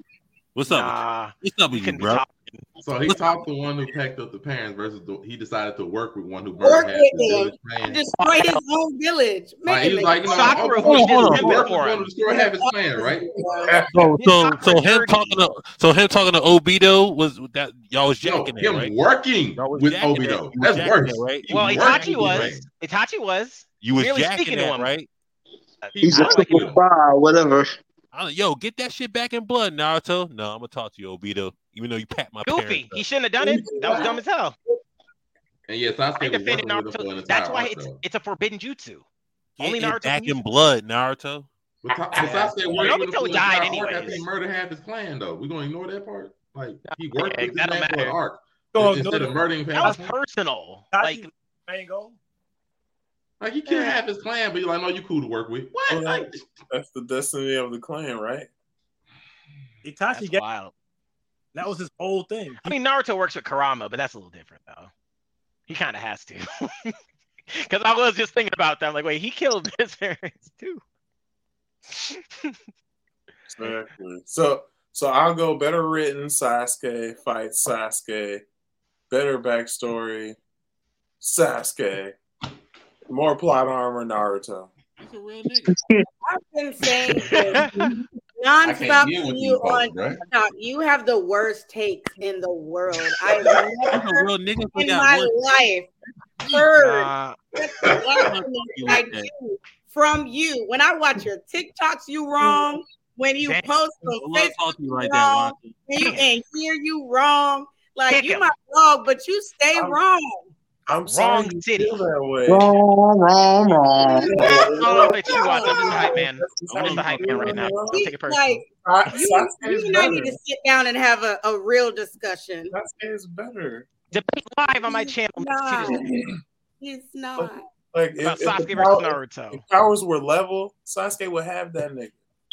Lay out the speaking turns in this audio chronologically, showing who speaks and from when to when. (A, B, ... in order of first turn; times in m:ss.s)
0:00.6-0:02.2 A
0:00.7-0:02.7 B
0:02.8-0:08.0 C
0:06.6-0:11.0 D
0:08.1-0:08.6 B
0:09.7-0:13.3 C
0:10.3-0:12.1 B
0:10.8-0:11.6 A
0:12.3-0:13.7 D
0:13.3-0:14.1 E
0:13.9-0:18.9 A
0:14.2-0:15.4 B
0:18.2-0:22.7 C
0:19.6-0:22.6 A
0:21.5-0:24.9 B
0:23.8-0:25.1 A
0:25.8-0:26.7 B
0:26.0-0:27.7 F
0:26.1-0:26.8 C
0:28.1-0:33.0 A
0:32.4-0:34.6 B
0:33.4-0:34.2 E
0:35.7-0:38.0 C
0:36.2-0:39.0 B
0:39.6-0:40.4 B
0:39.6-0:41.5 A
0:41.8-0:50.1 C
0:41.9-0:43.8 E
0:42.8-0:44.2 B
0:46.9-0:48.2 B
0:48.7-0:49.4 G
0:49.8-0:51.3 B
0:50.9-0:52.2 G
0:53.4-0:56.5 C
0:55.9-0:58.5 E
0:59.8-1:00.4 G
1:00.1-1:00.7 B
1:01.5-1:02.7 G
1:02.6-1:04.9 B
1:05.7-1:06.9 B
1:07.5-1:10.8 B
1:12.1-1:12.6 B
1:13.5-1:18.4 E
1:19.1-1:20.4 E
1:21.2-1:22.2 E
1:23.1-1:24.7 E
1:25.0-1:25.8 A
1:25.7-1:26.1 F
1:26.3-1:35.9 D
1:28.6-1:30.2 C
1:33.9-1:35.4 A
1:36.5-1:50.5 D
1:36.8-1:37.4 B
1:37.8-1:38.3 C
1:38.2-1:39.3 A
1:43.4-1:43.8 B
1:44.0-1:45.7 A
1:46.0-1:46.2 B
1:48.1-1:48.5 B
1:49.8-1:50.0 E
1:50.9-1:52.8 E
1:51.0-1:52.0 B
1:52.5-1:54.4 F
1:54.0-1:58.1 E
1:54.4-1:58.5 B
1:54.5-1:56.2 D
1:56.8-1:57.6 A
1:57.9-2:02.7 D
1:58.7-2:00.4 E
2:02.7-2:03.9 E
2:04.1-2:06.1 B
2:04.8-2:06.1 D
2:05.9-2:06.4 E
2:06.8-2:07.7 D
2:07.4-2:12.2 E
2:08.2-2:09.6 B